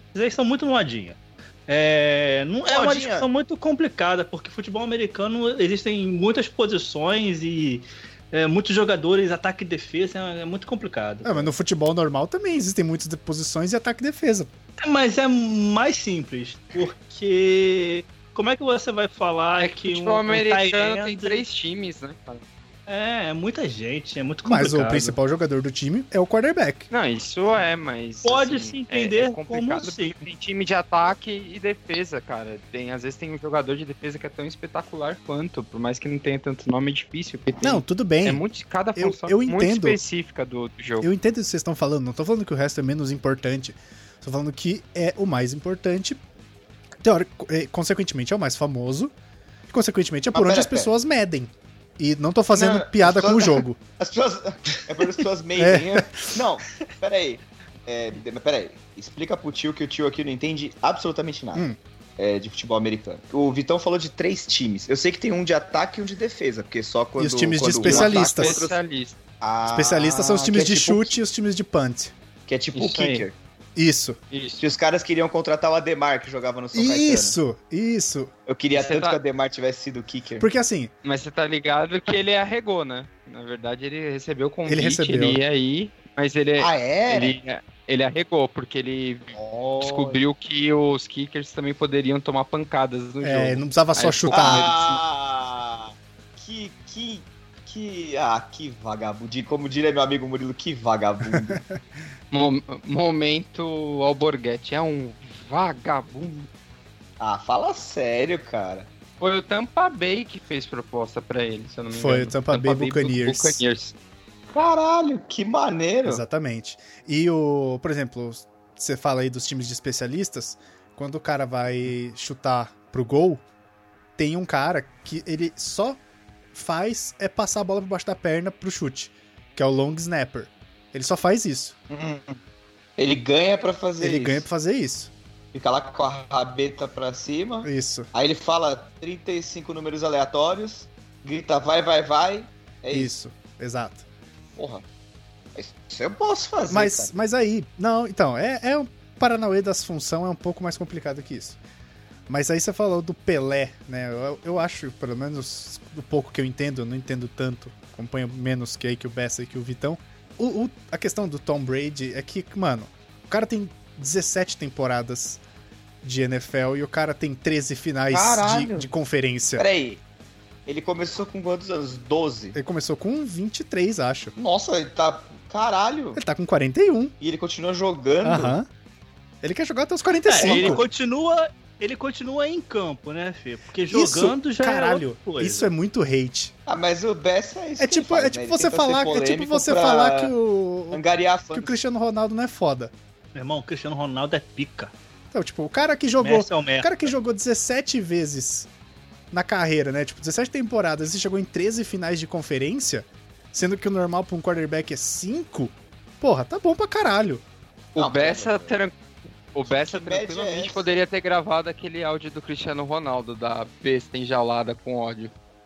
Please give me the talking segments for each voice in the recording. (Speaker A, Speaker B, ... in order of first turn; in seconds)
Speaker A: 0.1-11.5, 14.8-21.4, 22.9-25.2, 28.2-30.2, 180.3-185.7, 193.3-194.9, 196.2-197.1
Speaker B: 2.7-3.3, 50.3-50.9, 52.5-61.6, 62.2-68.8, 69.4-71.2, 72.5-73.4, 74.6-77.4, 78.5-80.5, 86.6-87.4, 89.3-90.2, 94.3-101.6, 107.2-108.9, 114.5-116.2, 131.9-132.4, 133.0-134.4, 135.5-143.1, 144.6-144.8, 145.6-147.1, 168.1-168.9, 169.6-170.0, 170.7-172.6, 174.4-176.2, 177.2-178.6, 180.4-180.8, 186.7-190.3, 190.9-191.8, 208.0-208.8, 209.7-210.9
Speaker C: 11.2-14.5, 24.4-26.9, 37.6-38.4, 39.0-40.0, 41.0-46.2, 47.0-49.1, 49.7-53.8, 55.6-56.3, 67.2-68.6, 69.7-72.1, 73.8-74.2, 76.7-78.3, 80.4-80.9, 84.7-85.4, 93.2-94.7, 101.3-101.8, 111.9-113.6, 116.0-123.4, 124.2-126.0, 126.5-131.8, 134.0-135.1, 137.6-138.1, 142.9-144.1, 146.7-151.6, 152.3-165.4, 166.0-169.7, 172.6-174.3, 176.2-177.1, 178.2-178.7, 179.4-180.8, 183.9-186.5, 187.8-192.9, 195.3-198.7, 199.3-207.4
Speaker D: 19.6-22.4, 26.9-41.1, 67.8-69.2, 72.8-73.2, 74.3-74.6, 78.7-79.2, 81.0-95.0, 102.3-106.5, 109.2-114.0, 207.9-209.0, 209.5-215.3